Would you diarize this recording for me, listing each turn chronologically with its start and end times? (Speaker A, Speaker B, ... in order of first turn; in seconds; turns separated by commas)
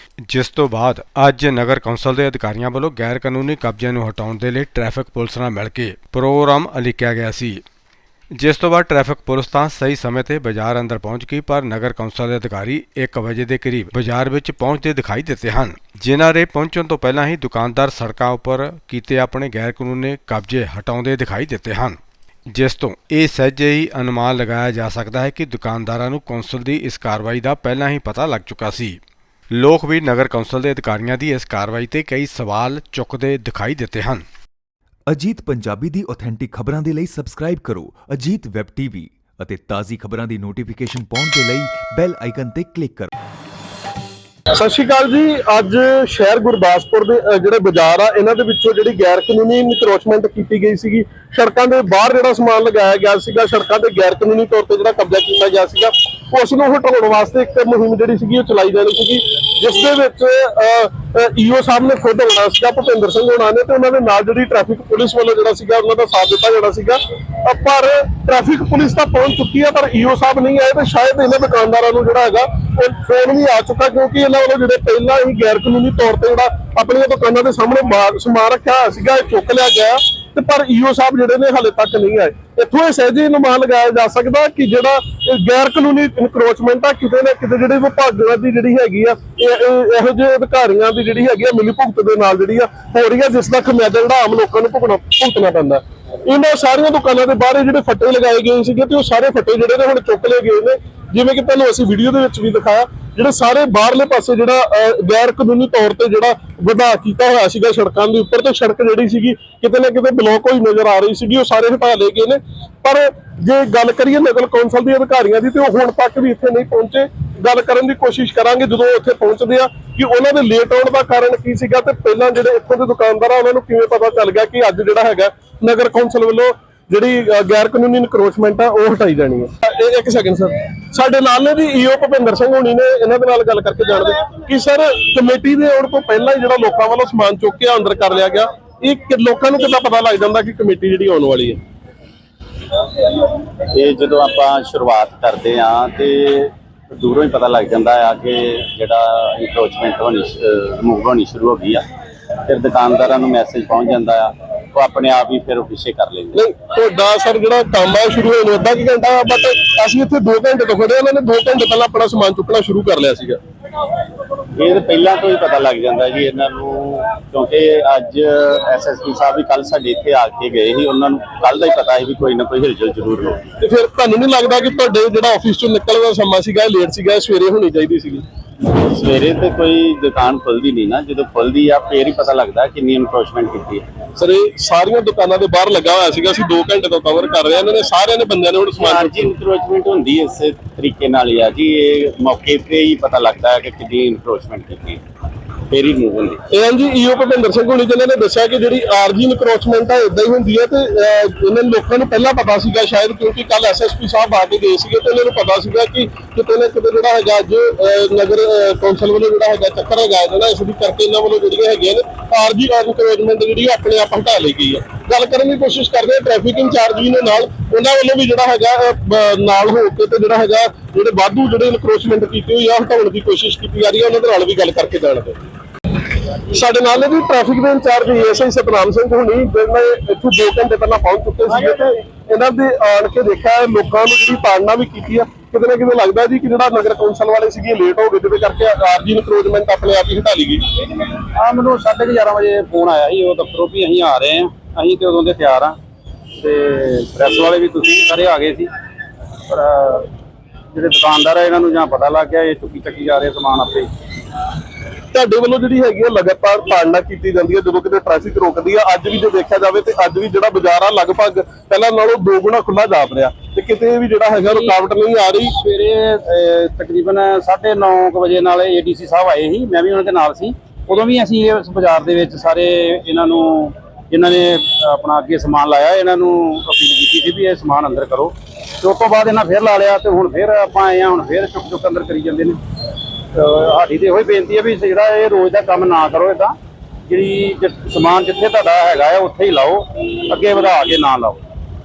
Speaker A: 0.3-7.6, Speaker A: 8.3-22.0, Speaker A: 22.5-29.0, Speaker A: 29.5-34.2, Speaker B: 35.1-43.1, Speaker C: 44.5-141.6, Speaker D: 143.8-151.8, Speaker D: 152.5-156.3, Speaker C: 156.3-163.4, Speaker D: 164.6-173.5, Speaker C: 173.6-178.2, Speaker D: 178.8-183.8, Speaker C: 184.2-189.3, Speaker D: 188.8-195.0, Speaker D: 195.7-196.4, Speaker C: 196.5-225.4, Speaker C: 226.5-240.6, Speaker E: 241.2-245.8, Speaker E: 246.4-248.7, Speaker E: 249.5-250.1, Speaker E: 250.7-253.9, Speaker C: 255.1-265.5, Speaker E: 264.4-264.8, Speaker E: 265.5-282.6, Speaker E: 283.3-286.6, Speaker E: 287.1-291.4